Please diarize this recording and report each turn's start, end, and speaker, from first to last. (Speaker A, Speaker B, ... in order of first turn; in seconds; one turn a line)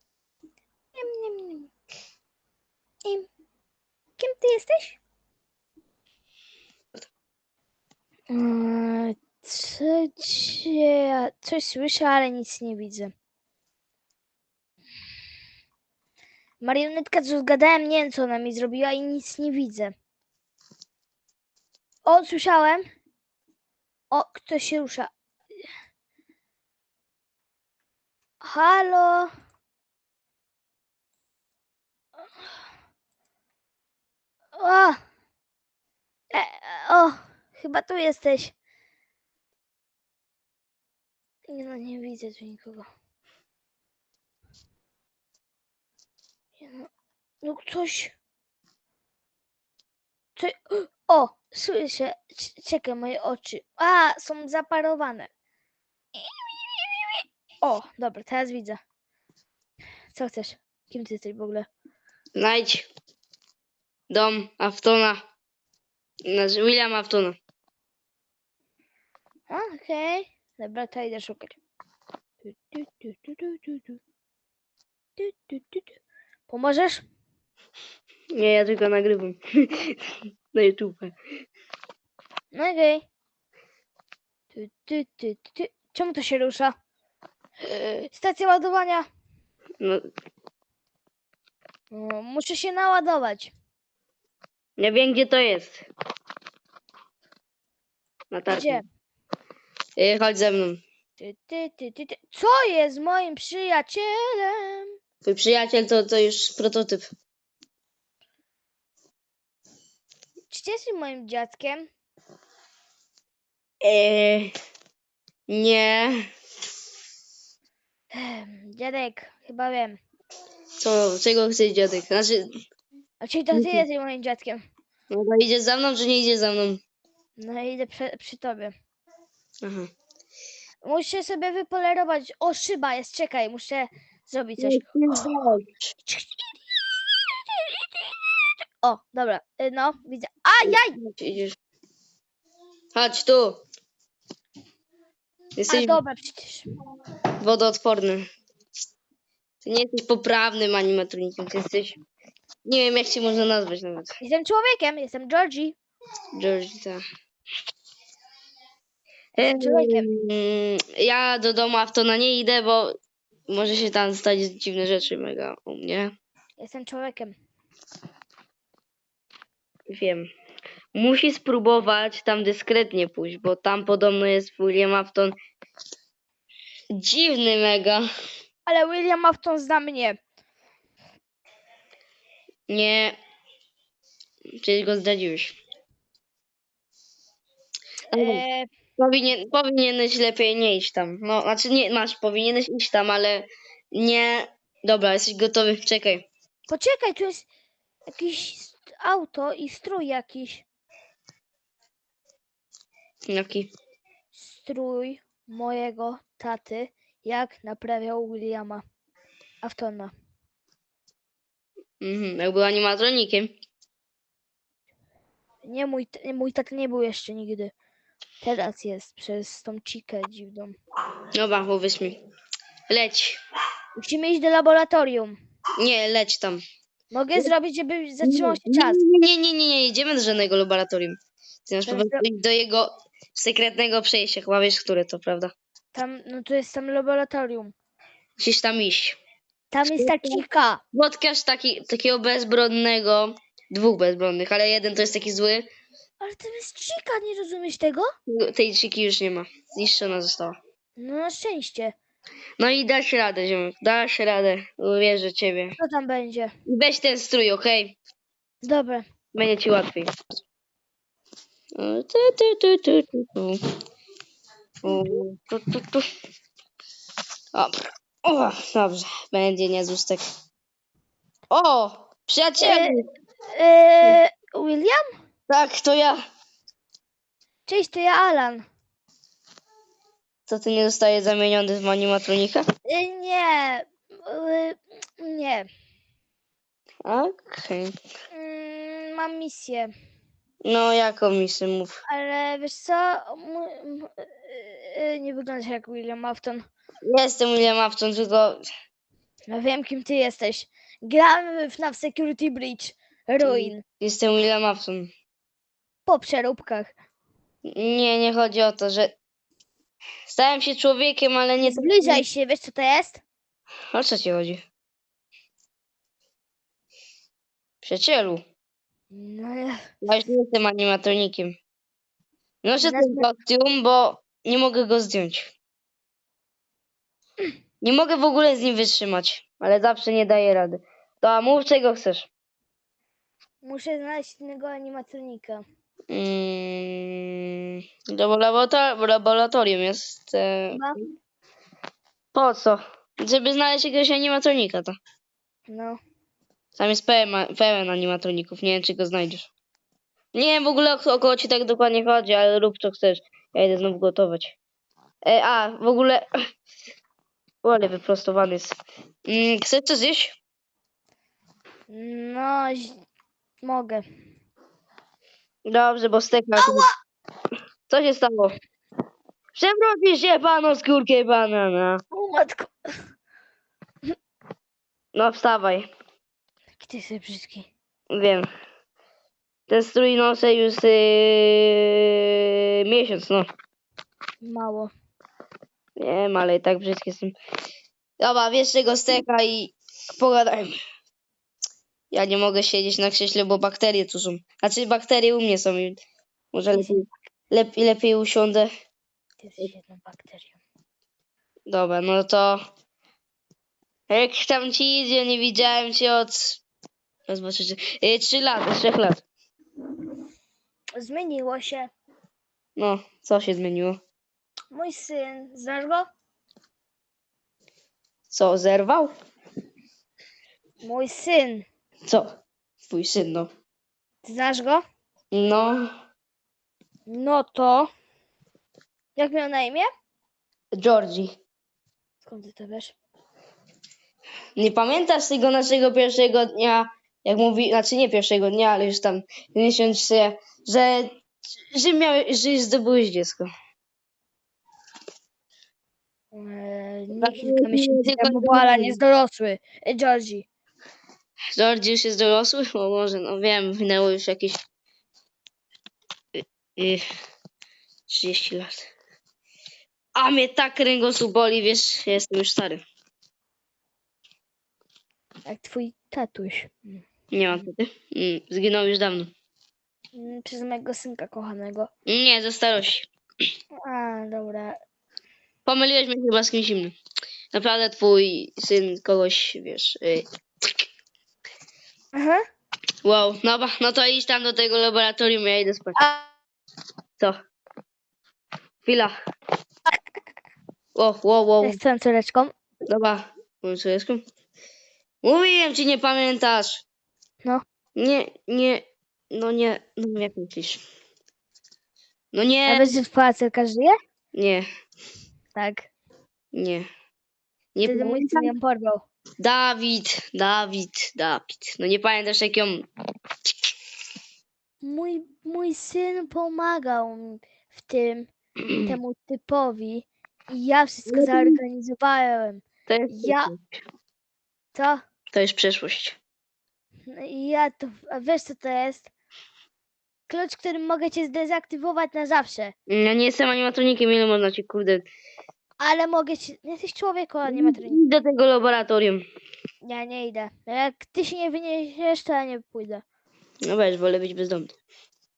Speaker A: 0.9-1.7
Speaker A: 4.2-5.0
Speaker A: 8.3-13.1
Speaker A: 16.6-19.9
Speaker A: 22.0-22.8
Speaker A: 24.1-25.1
Speaker A: 28.4-29.3
Speaker A: 34.6-35.0
Speaker A: 36.3-38.5
Speaker A: 41.5-42.9
Speaker A: 46.6-46.9
Speaker A: 47.4-48.1
Speaker A: 50.4-55.3
Speaker A: 56.7-58.8
Speaker A: 60.1-61.7
Speaker B: 62.4-62.9
Speaker B: 64.1-65.2
Speaker B: 66.2-67.4
Speaker A: 69.5-71.6
Speaker A: 72.4-74.0
Speaker A: 75.2-76.0
Speaker A: 76.5-77.0
Speaker B: 78.3-80.0
Speaker B: 80.5-81.1
Speaker A: 82.5-83.0
Speaker A: 84.5-86.7
Speaker A: 87.6-89.1
Speaker B: 89.8-90.1
Speaker A: 91.9-93.5
Speaker B: 94.8-95.8
Speaker B: 98.3-98.8
Speaker A: 98.5-98.8
Speaker B: 100.0-100.8
Speaker A: 101.2-104.9
Speaker B: 105.2-107.1
Speaker A: 110.5-111.9
Speaker B: 113.8-114.5
Speaker B: 115.5-116.2
Speaker A: 118.1-120.0
Speaker B: 120.8-122.5
Speaker A: 123.2-124.6
Speaker B: 123.5-123.8
Speaker B: 125.1-126.8
Speaker A: 127.4-128.7
Speaker B: 129.6-129.9
Speaker A: 130.8-134.9
Speaker B: 134.6-135.7
Speaker A: 136.0-138.3
Speaker A: 138.8-141.0
Speaker B: 140.6-141.6
Speaker B: 142.9-143.6
Speaker B: 145.6-146.0
Speaker A: 145.7-146.7
Speaker B: 147.4-148.2
Speaker B: 149.6-152.0
Speaker B: 152.6-154.1
Speaker A: 154.2-155.7
Speaker B: 156.3-157.0
Speaker A: 159.3-160.1
Speaker B: 159.4-162.9
Speaker B: 163.5-166.1
Speaker A: 166.6-167.3
Speaker B: 169.9-170.2
Speaker B: 170.9-175.3
Speaker B: 176.9-178.0
Speaker A: 178.7-180.2
Speaker B: 182.7-183.2
Speaker B: 184.6-185.6
Speaker A: 188.1-188.7
Speaker B: 188.1-188.4
Speaker B: 189.0-196.2
Speaker A: 196.7-197.5
Speaker A: 198.1-200.7
Speaker B: 203.3-203.7
Speaker A: 204.3-208.8
Speaker A: 209.6-210.1
Speaker B: 212.0-213.5
Speaker A: 215.6-217.7
Speaker A: 218.4-220.8
Speaker B: 221.3-222.2
Speaker B: 222.9-223.4
Speaker A: 223.9-225.4
Speaker B: 225.8-226.6
Speaker A: 227.1-229.0
Speaker B: 228.2-235.5
Speaker A: 231.8-232.2
Speaker A: 235.9-237.7
Speaker B: 238.4-239.2
Speaker A: 239.7-240.8
Speaker B: 239.9-245.7
Speaker A: 246.2-248.1
Speaker B: 248.3-250.6
Speaker A: 251.0-251.9
Speaker B: 252.6-255.7
Speaker A: 255.8-256.5
Speaker B: 256.6-257.9
Speaker A: 258.6-259.1
Speaker B: 259.3-260.2
Speaker B: 261.8-263.6
Speaker B: 264.8-266.0
Speaker A: 264.9-265.2
Speaker B: 268.2-270.2
Speaker B: 271.5-273.0
Speaker A: 272.6-272.9
Speaker A: 273.5-275.0
Speaker B: 275.5-276.2
Speaker A: 277.6-278.6
Speaker B: 280.5-282.6
Speaker A: 282.9-285.7
Speaker B: 287.0-287.9
Speaker A: 288.3-289.9
Speaker B: 290.6-292.0
Speaker A: 292.1-296.6
Speaker B: 297.1-298.6
Speaker A: 299.5-303.8
Speaker B: 303.4-305.1
Speaker A: 306.1-306.9
Speaker B: 307.6-309.1
Speaker B: 310.3-312.2
Speaker A: 311.6-313.2
Speaker B: 313.9-314.6
Speaker B: 317.8-318.4
Speaker A: 319.1-319.9
Speaker B: 320.0-321.6
Speaker B: 322.6-325.5
Speaker A: 322.8-323.2
Speaker B: 327.8-332.3
Speaker A: 333.6-335.6
Speaker B: 336.1-341.0
Speaker A: 340.7-341.0
Speaker B: 342.3-345.0
Speaker A: 345.7-346.0
Speaker B: 346.8-349.5
Speaker B: 350.3-354.6
Speaker B: 355.2-356.3
Speaker B: 357.6-360.4
Speaker A: 361.9-363.0
Speaker A: 363.6-364.0
Speaker B: 365.6-366.9
Speaker A: 366.6-366.9
Speaker B: 367.9-368.6
Speaker B: 369.5-372.0
Speaker A: 372.1-372.7
Speaker B: 375.1-375.9
Speaker A: 376.8-377.7
Speaker B: 378.1-378.5
Speaker B: 379.7-383.5
Speaker A: 384.4-384.9
Speaker B: 386.0-387.3
Speaker B: 388.2-390.7
Speaker B: 392.1-396.0
Speaker B: 396.5-398.7
Speaker A: 396.7-397.1
Speaker A: 399.4-400.6
Speaker B: 401.7-402.6
Speaker B: 404.1-406.6
Speaker B: 407.3-409.2
Speaker A: 411.0-411.9
Speaker B: 412.8-414.0
Speaker A: 414.7-416.0
Speaker B: 418.3-419.1
Speaker A: 420.8-421.6
Speaker B: 422.9-423.5
Speaker A: 424.2-424.8
Speaker B: 425.3-425.9
Speaker A: 427.1-427.9
Speaker A: 429.1-429.9
Speaker B: 430.7-431.3
Speaker A: 432.2-432.9
Speaker B: 434.6-441.1
Speaker B: 441.7-443.5
Speaker A: 446.3-450.4
Speaker B: 447.2-449.0
Speaker B: 451.5-454.6
Speaker B: 456.4-457.0
Speaker B: 458.1-458.9
Speaker B: 460.1-462.8
Speaker A: 465.4-467.6
Speaker B: 467.3-469.3
Speaker A: 470.1-471.9
Speaker B: 472.1-473.1
Speaker A: 473.8-474.8
Speaker B: 475.6-476.9
Speaker B: 477.5-480.7
Speaker A: 482.1-482.4
Speaker B: 483.0-486.0
Speaker A: 485.9-486.3
Speaker B: 488.8-489.1
Speaker B: 490.9-491.8
Speaker A: 491.6-492.5
Speaker B: 492.9-494.2
Speaker B: 495.2-496.8
Speaker B: 497.9-500.8
Speaker B: 502.3-502.9
Speaker A: 502.6-503.9
Speaker B: 504.3-504.6
Speaker A: 505.5-505.9
Speaker B: 506.5-506.9
Speaker B: 507.7-508.5
Speaker A: 507.8-509.0
Speaker B: 509.4-512.9
Speaker A: 514.8-518.3
Speaker B: 518.7-518.9
Speaker A: 518.8-523.5
Speaker B: 521.1-521.6
Speaker B: 522.9-523.8
Speaker A: 524.7-525.0
Speaker B: 525.3-526.2
Speaker A: 527.1-529.1
Speaker A: 530.3-532.7
Speaker B: 532.9-535.1
Speaker A: 535.8-538.0
Speaker B: 537.5-539.2
Speaker A: 539.8-543.0
Speaker B: 543.6-544.8